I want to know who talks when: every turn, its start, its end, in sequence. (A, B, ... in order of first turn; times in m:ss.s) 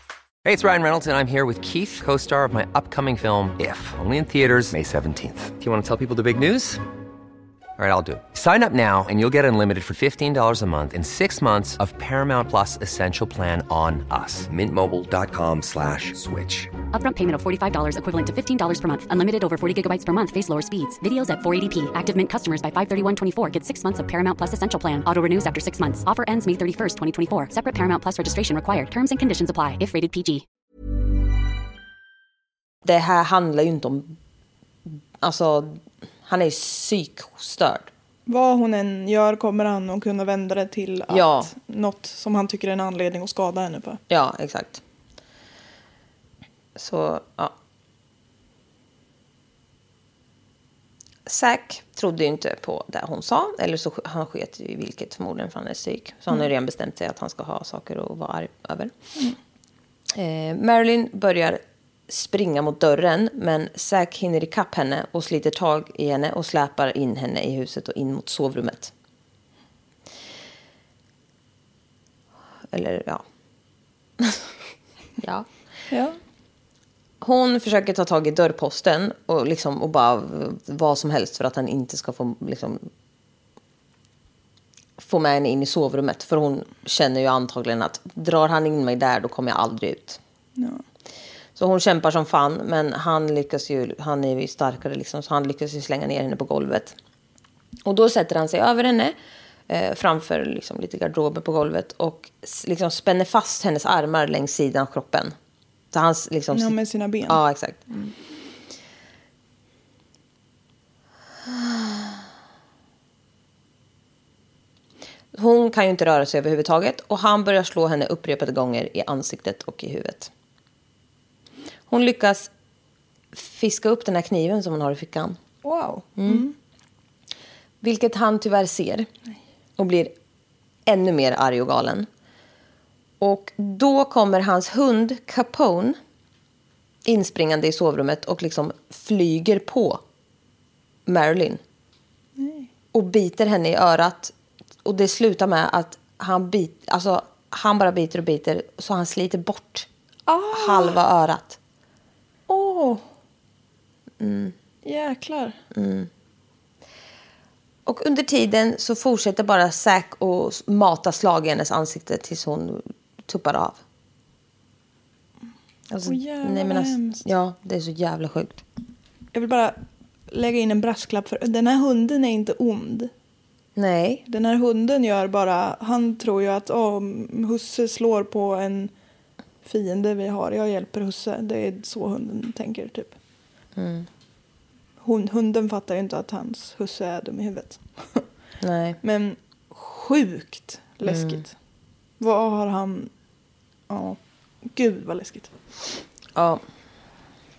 0:00.4-0:06.8 A
0:07.8-0:16.7 A
0:16.9-0:30.4 B
0:32.8-0:34.2 C
0:34.9-0:37.9 C
0:38.3-0:44.0 D
0:41.1-0:41.5 C
0:44.1-0:44.8 C
0:46.8-0:47.5 C
0:51.3-0:58.9 C
1:00.1-1:08.9 C
1:12.7-1:13.2 C
1:15.2-1:15.5 C
1:15.9-1:16.2 D
1:17.2-1:22.9 C
1:25.0-1:30.2 C
1:30.6-1:30.8 D
1:31.6-1:37.0 C
1:37.8-1:39.2 C
1:39.7-1:45.3 C
1:45.9-1:47.8 C
1:46.5-1:48.1 D
1:51.5-1:51.8 C
1:55.3-2:00.3 C
2:01.9-2:02.5 C
2:03.3-2:05.4 C
2:05.6-2:06.5 D
2:06.2-2:06.4 C
2:07.8-2:09.1 C
2:09.8-2:10.1 C
2:10.9-2:12.1 C
2:13.2-2:16.0 C
2:17.0-2:20.0 C
2:21.1-2:21.6 C
2:22.4-2:22.7 D
2:22.9-2:24.3 C
2:24.8-2:29.9 C
2:30.3-2:31.0 D
2:30.5-2:31.6 C
2:32.5-2:33.0 D
2:34.2-2:34.5 C
2:34.8-2:35.6 D
2:35.7-2:36.1 C
2:37.9-2:43.8 C
2:45.9-2:48.6 C
2:46.0-2:47.2 D
2:49.3-2:53.1 D
2:53.8-2:54.2 C
2:54.3-2:58.9 D
2:59.6-3:03.2 D
3:03.8-3:04.1 C
3:05.0-3:08.2 D
3:08.6-3:09.0 C
3:09.0-3:11.5 D
3:11.1-3:11.4 C
3:12.2-3:13.1 D
3:13.9-3:14.2 D
3:14.7-3:15.5 D
3:16.4-3:16.6 C